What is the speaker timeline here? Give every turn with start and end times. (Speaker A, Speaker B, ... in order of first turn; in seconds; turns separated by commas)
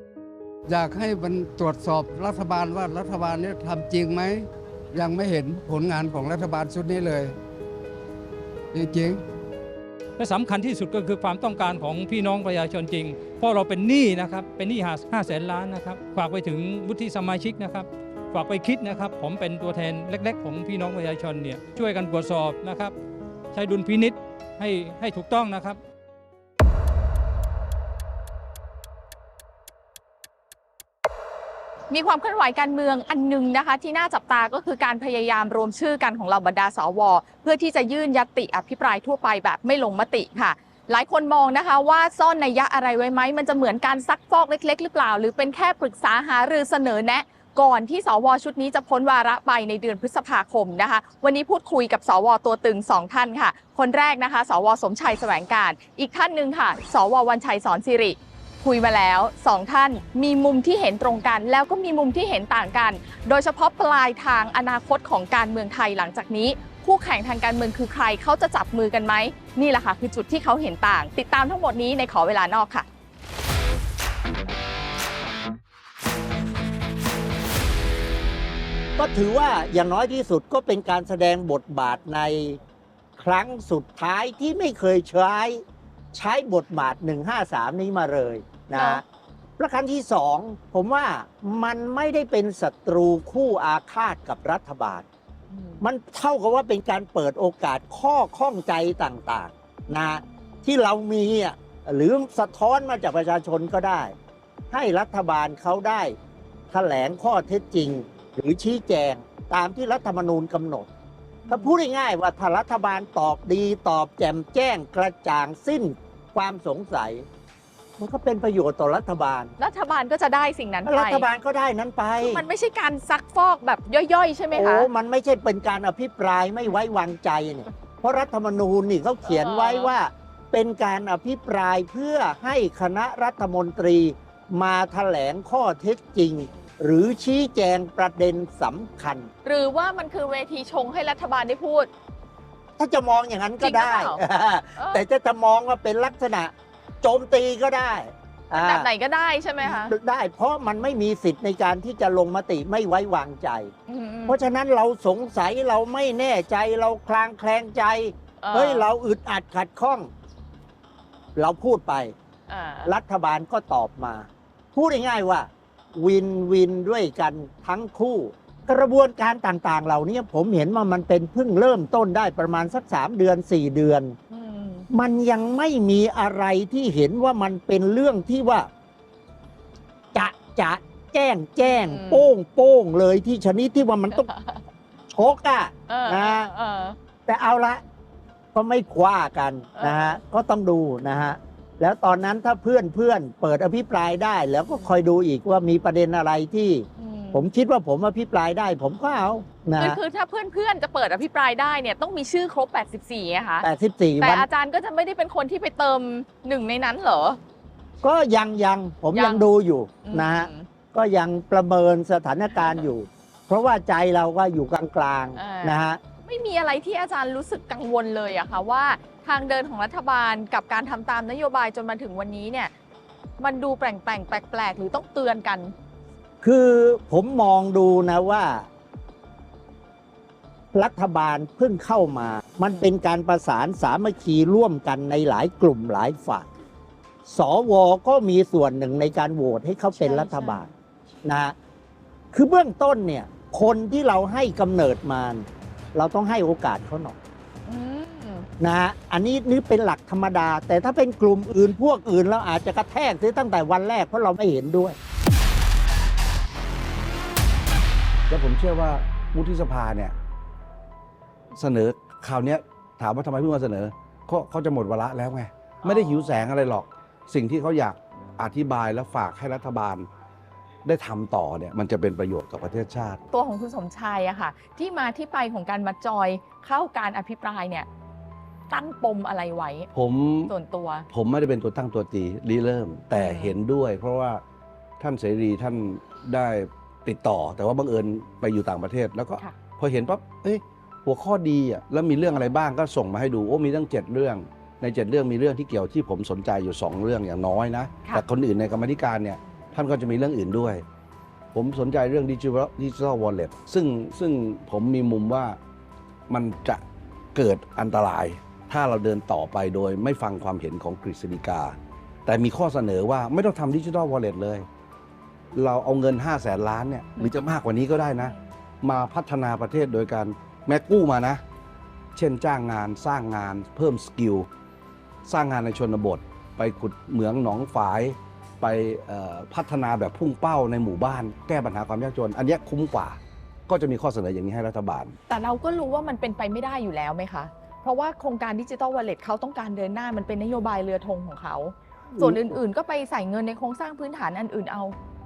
Speaker A: 0.7-7.4, Speaker A: 8.7-9.2, Speaker B: 10.2-22.9, Speaker B: 23.5-25.8, Speaker C: 31.9-72.9, Speaker D: 79.0-82.6, Speaker D: 83.2-89.0, Speaker C: 88.7-89.0, Speaker D: 89.6-95.1, Speaker C: 95.5-95.8, Speaker D: 95.8-104.2, Speaker C: 99.9-100.7, Speaker D: 104.7-106.2, Speaker D: 106.7-110.9, Speaker C: 111.5-111.7, Speaker D: 111.5-117.3, Speaker D: 118.0-119.5, Speaker C: 119.6-121.3, Speaker D: 120.9-122.4, Speaker C: 122.2-124.9, Speaker D: 124.5-139.3, Speaker C: 129.3-129.9, Speaker C: 139.4-141.9, Speaker D: 142.8-148.9, Speaker C: 143.6-144.2, Speaker C: 144.8-145.0, Speaker C: 148.6-149.9, Speaker D: 149.6-153.7, Speaker C: 153.9-154.4, Speaker D: 154.3-160.1, Speaker C: 158.4-158.9, Speaker D: 161.4-162.1, Speaker C: 162.5-162.9, Speaker D: 162.8-174.2, Speaker C: 174.3-174.9, Speaker D: 174.9-178.7, Speaker D: 180.1-184.3, Speaker C: 181.6-182.3, Speaker C: 184.1-184.6, Speaker D: 185.1-186.5, Speaker C: 185.9-187.0, Speaker D: 187.3-187.8, Speaker D: 188.5-200.0, Speaker C: 189.8-190.2, Speaker C: 197.0-197.4, Speaker C: 199.8-203.7, Speaker D: 203.6-204.5, Speaker C: 204.2-207.4, Speaker D: 208.0-216.0, Speaker C: 209.1-209.5, Speaker C: 210.0-210.7, Speaker C: 212.6-212.8, Speaker C: 215.4-222.7, Speaker C: 223.4-225.7, Speaker D: 226.4-228.7, Speaker D: 230.7-236.5, Speaker D: 237.3-240.7, Speaker C: 239.9-240.7, Speaker D: 241.2-241.6, Speaker D: 242.3-247.2, Speaker C: 247.7-248.5, Speaker D: 248.6-255.0, Speaker E: 258.3-260.1, Speaker E: 261.5-270.1, Speaker C: 265.8-266.4, Speaker E: 270.9-273.2, Speaker C: 273.3-277.9, Speaker C: 278.7-279.9, Speaker E: 279.9-280.5, Speaker C: 280.5-281.1, Speaker E: 281.1-284.4, Speaker C: 283.2-283.6, Speaker E: 285.0-300.9, Speaker E: 301.5-305.6, Speaker E: 306.3-306.8, Speaker E: 307.4-314.7, Speaker E: 315.5-321.4, Speaker E: 322.2-324.5, Speaker E: 325.2-335.1, Speaker C: 335.3-345.0